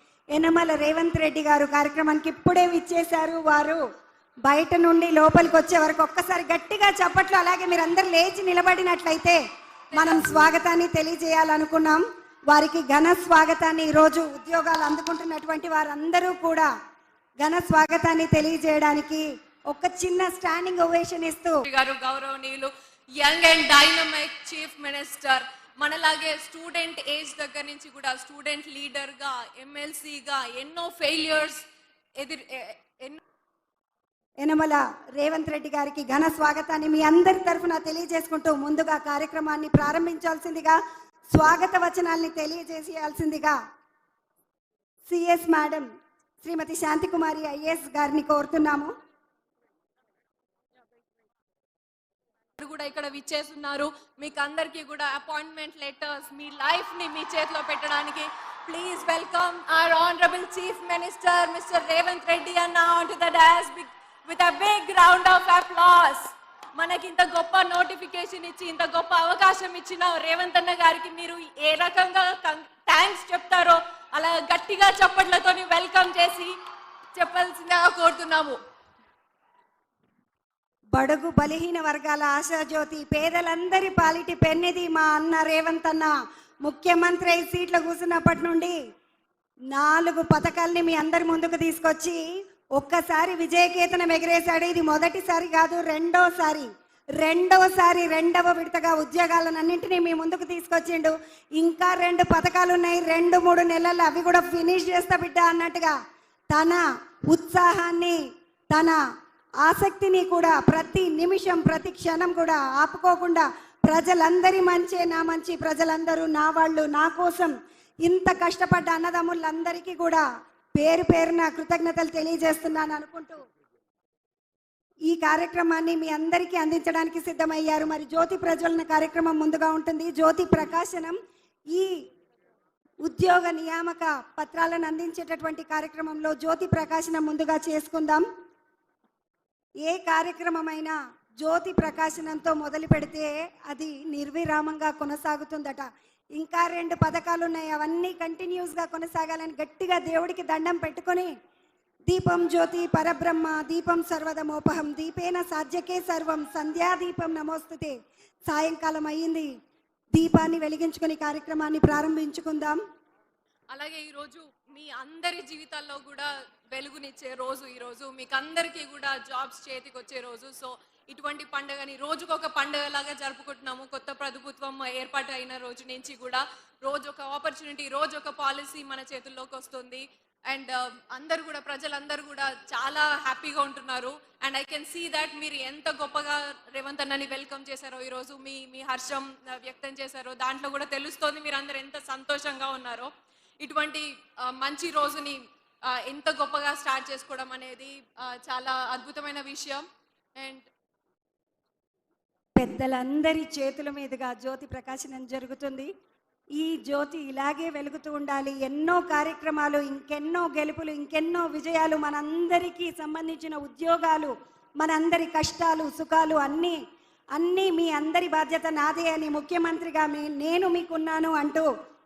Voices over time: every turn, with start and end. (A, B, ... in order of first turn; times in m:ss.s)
0:00.3-0:03.8 A
0:04.5-0:09.4 A
0:09.9-0:10.5 B
0:09.9-0:16.7 A
0:17.4-0:21.6 A
0:21.6-0:31.6 B
0:32.2-0:33.2 B
0:34.4-0:40.8 A
0:41.3-0:43.6 A
0:45.1-0:45.9 A
0:46.4-0:48.9 A
0:52.6-1:16.5 B
1:17.2-1:18.6 B
1:21.0-1:26.1 A
1:26.6-1:28.8 A
1:29.7-1:32.2 A
1:32.8-1:36.7 A
1:37.2-1:45.9 A
1:46.5-1:48.2 A
1:48.7-1:49.0 A
1:49.6-1:57.5 A
1:58.0-2:00.2 A
2:00.8-2:03.4 A
2:05.1-2:11.2 A
2:13.0-2:18.2 A
2:19.8-2:25.8 A
2:26.4-2:31.3 A
2:32.1-2:37.9 A
2:38.5-2:39.5 A
2:40.1-2:42.8 A
2:43.7-3:13.1 B
3:13.6-3:19.8 B
3:20.4-3:20.6 B
3:22.6-3:25.9 A
3:26.6-3:36.8 A
3:37.4-3:41.7 A